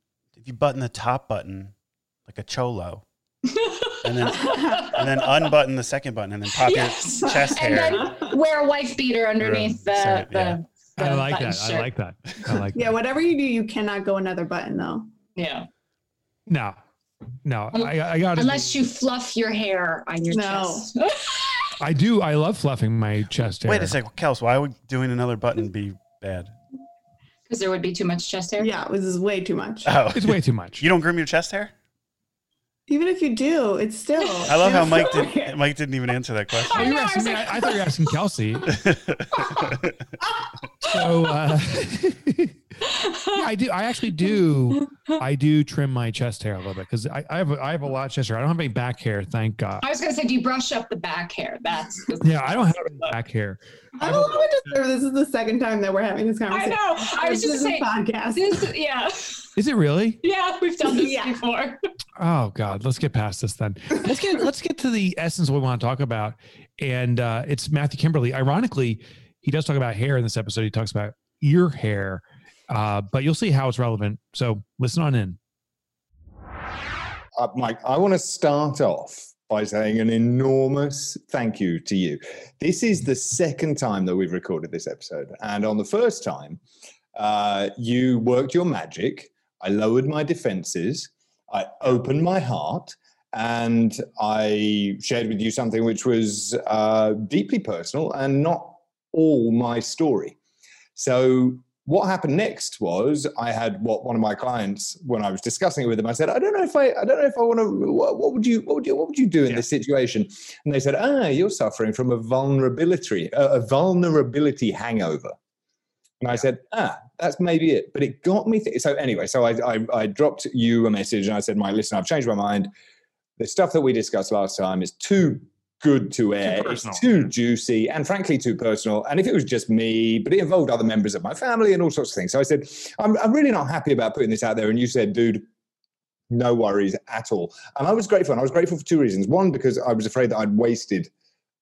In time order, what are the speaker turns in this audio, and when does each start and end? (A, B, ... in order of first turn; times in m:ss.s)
0:00.4-0:01.7 A
0:02.3-0:03.0 A
0:03.7-0:05.1 B
0:04.0-0:08.2 A
0:04.3-0:05.1 C
0:06.6-0:11.9 B
0:07.2-0:08.3 C
0:09.4-0:10.6 A
0:11.0-0:12.9 D
0:12.7-0:15.1 C
0:15.3-0:15.7 B
0:16.5-0:16.8 D
0:17.4-0:18.8 D
0:17.7-0:21.7 B
0:20.3-0:20.9 C
0:21.8-0:24.0 D
0:23.6-0:26.5 A
0:27.5-0:28.7 B
0:28.6-0:30.0 C
0:29.8-0:31.7 A
0:30.1-0:30.8 D
0:32.9-0:35.5 C
0:34.4-0:35.1 B
0:34.4-0:36.9 A
0:36.6-0:37.9 B
0:36.7-0:38.7 D
0:38.7-0:39.9 A
0:40.8-0:42.5 D
0:42.8-0:43.5 B
0:43.3-0:49.8 D
0:49.8-0:53.1 B
0:52.2-0:54.5 D
0:54.0-0:58.7 C
0:56.5-0:59.4 B
0:59.6-1:00.2 D
1:00.2-1:01.8 B
1:00.8-1:01.4 C
1:02.2-1:15.4 D
1:17.4-1:26.6 E
1:27.1-1:40.4 E
1:41.0-1:55.4 E
1:56.2-2:02.7 E
2:03.4-2:15.4 E
2:06.4-2:07.3 D
2:16.3-2:21.1 E